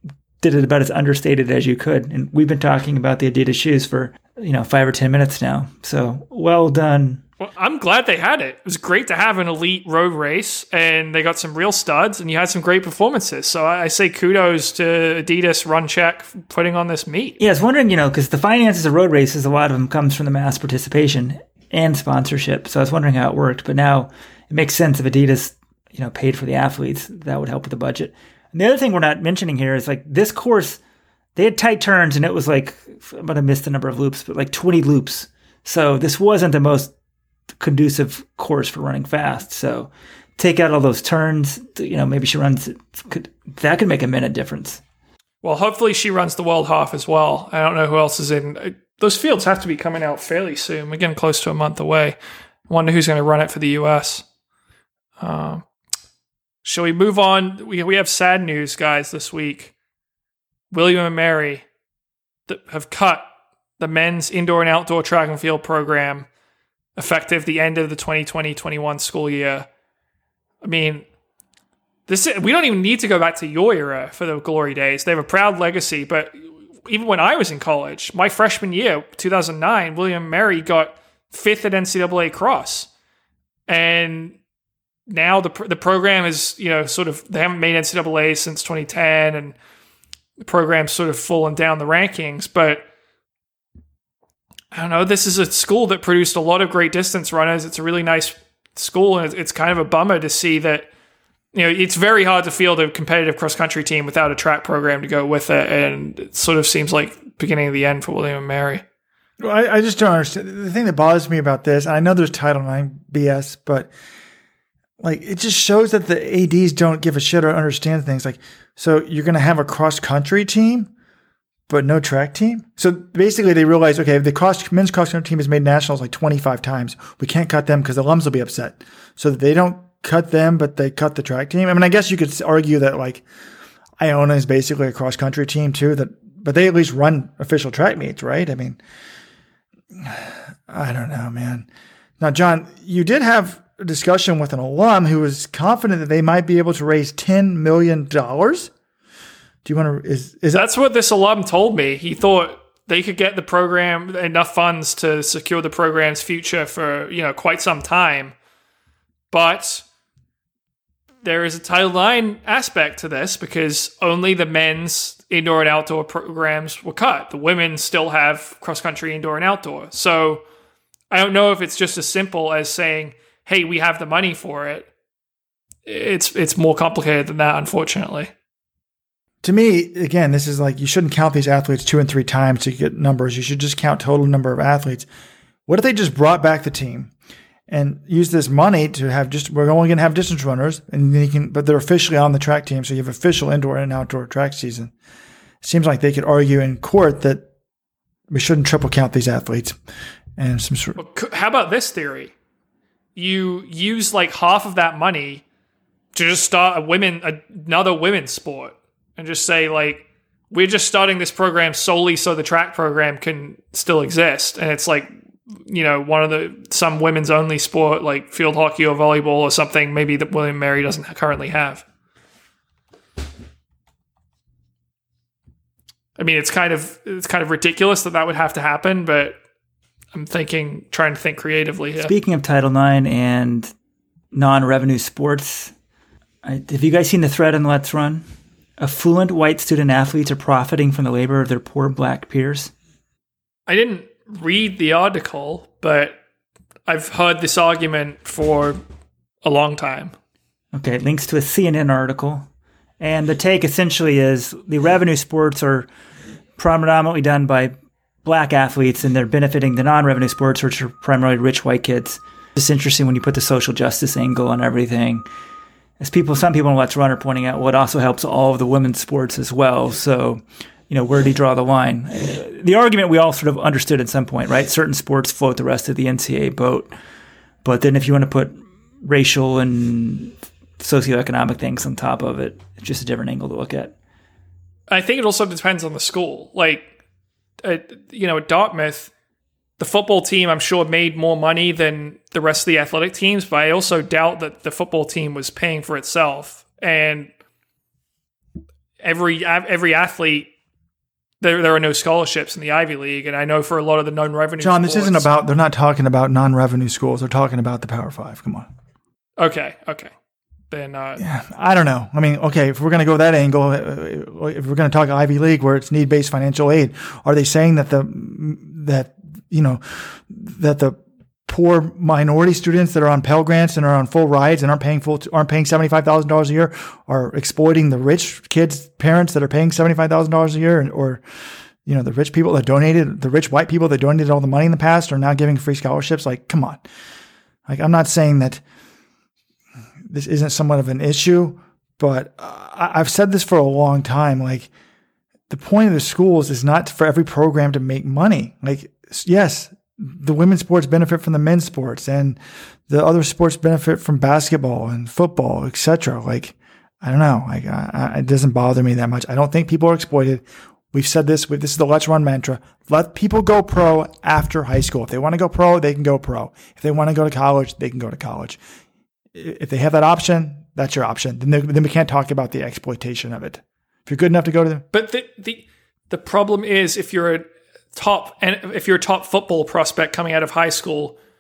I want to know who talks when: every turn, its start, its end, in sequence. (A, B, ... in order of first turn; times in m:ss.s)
0:00.4-0:07.2 A
0:07.4-0:17.4 B
0:17.4-0:30.8 A
0:31.4-0:36.9 A
0:37.6-0:44.8 A
0:45.4-0:52.2 B
0:52.7-0:54.2 B
0:55.2-0:55.6 B
0:56.6-0:59.7 B
1:00.7-1:01.6 B
1:02.5-1:03.3 B
1:03.8-1:06.3 B
1:07.0-1:09.7 B
1:10.6-1:11.0 B
1:12.1-1:16.4 B
1:16.9-1:22.9 B
1:23.7-1:24.4 B
1:25.1-1:29.6 B
1:30.4-1:32.8 B
1:34.7-1:40.9 B
1:41.5-1:48.8 B
1:49.4-1:53.9 C
1:55.0-2:00.9 C
2:01.7-2:13.2 C
2:14.0-2:18.8 C
2:20.0-2:21.7 C
2:22.2-2:28.7 C
2:29.6-2:30.7 C
2:30.5-2:38.4 B
2:39.3-2:39.8 B
2:41.2-2:50.4 B
2:51.1-2:54.9 B
2:55.9-2:58.3 B
2:59.4-3:05.1 C
3:05.7-3:07.1 C
3:07.7-3:14.9 C
3:15.6-3:17.4 C
3:18.3-3:19.8 C
3:20.4-3:21.0 C
3:21.0-3:22.3 B
3:23.2-3:25.4 B
3:26.1-3:35.1 B
3:35.7-3:41.8 B
3:46.2-3:49.4 B
3:50.1-3:52.1 B
3:52.0-3:53.7 A
3:54.3-3:55.7 A
3:56.4-3:58.3 A
3:58.8-4:02.7 A
4:03.7-4:06.2 B
4:06.9-4:08.8 B
4:09.4-4:10.1 B
4:10.7-4:12.5 A
4:13.0-4:15.9 A
4:16.6-4:25.3 A
4:26.0-4:36.9 A
4:37.6-4:44.0 A
4:44.9-4:46.8 B
4:47.6-4:49.1 B
4:49.8-4:57.3 B
4:59.0-5:00.5 B
5:01.4-5:05.3 B
5:04.6-5:08.7 C
5:09.4-5:10.1 B
5:10.7-5:11.2 B
5:11.2-5:31.2 C
5:31.8-5:36.8 C
5:37.7-5:38.6 C
5:40.1-5:44.7 C
5:45.5-6:08.6 C
6:09.4-6:14.8 C
6:14.9-6:21.2 B